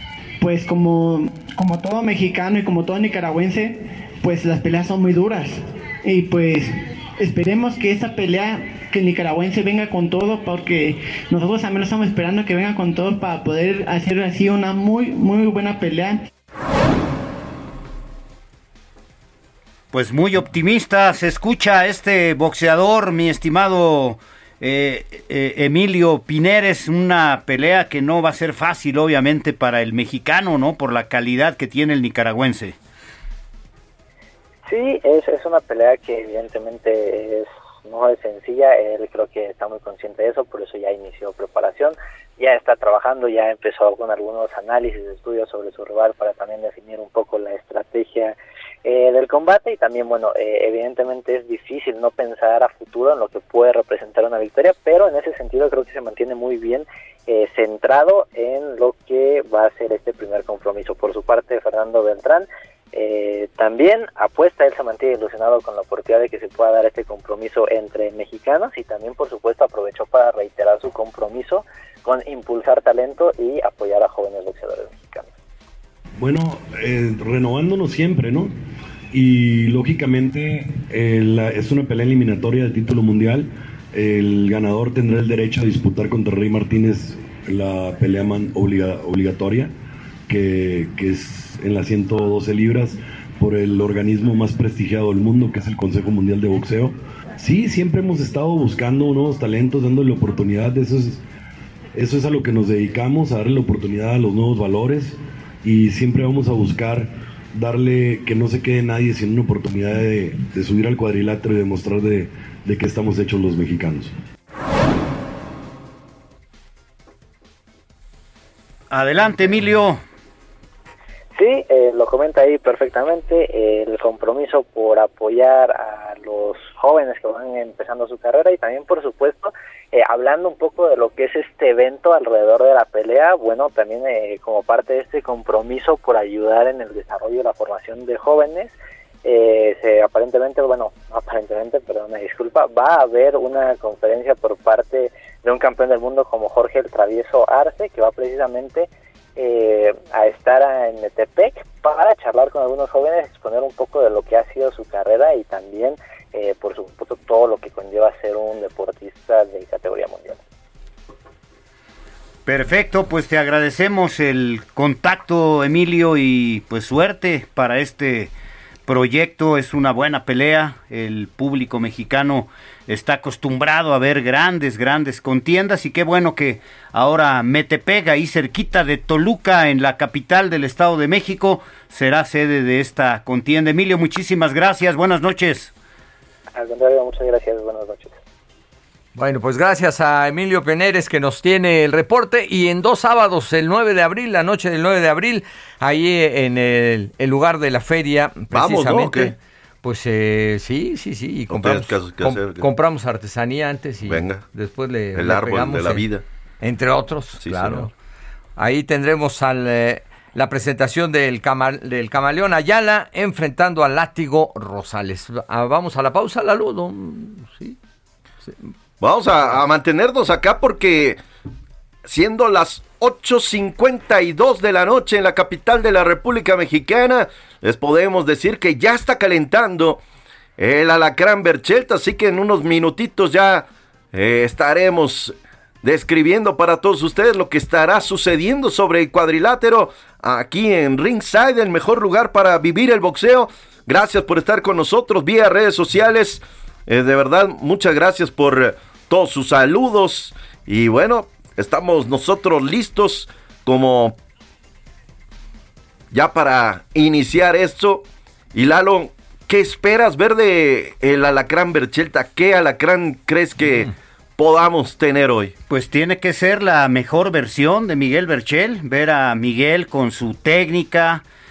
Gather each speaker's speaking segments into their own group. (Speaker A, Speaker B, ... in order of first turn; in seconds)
Speaker A: 0.4-16.2
Speaker B: 19.9-32.8, 118.9-120.0, 162.4-168.3, 168.9-185.7, 265.7-271.2
Speaker C: 34.7-48.3, 48.8-75.3, 121.3-138.7, 139.2-160.4, 186.5-188.2
Speaker D: 76.2-78.5, 79.1-89.7, 90.3-101.2, 101.9-114.1
Speaker E: 189.2-206.0, 206.6-207.9, 208.6-217.8
Speaker F: 198.5-199.3, 201.5-202.7, 204.1-204.4, 205.1-206.2, 207.4-207.9, 219.0-221.2, 222.0-230.0, 230.6-254.2, 256.1-265.5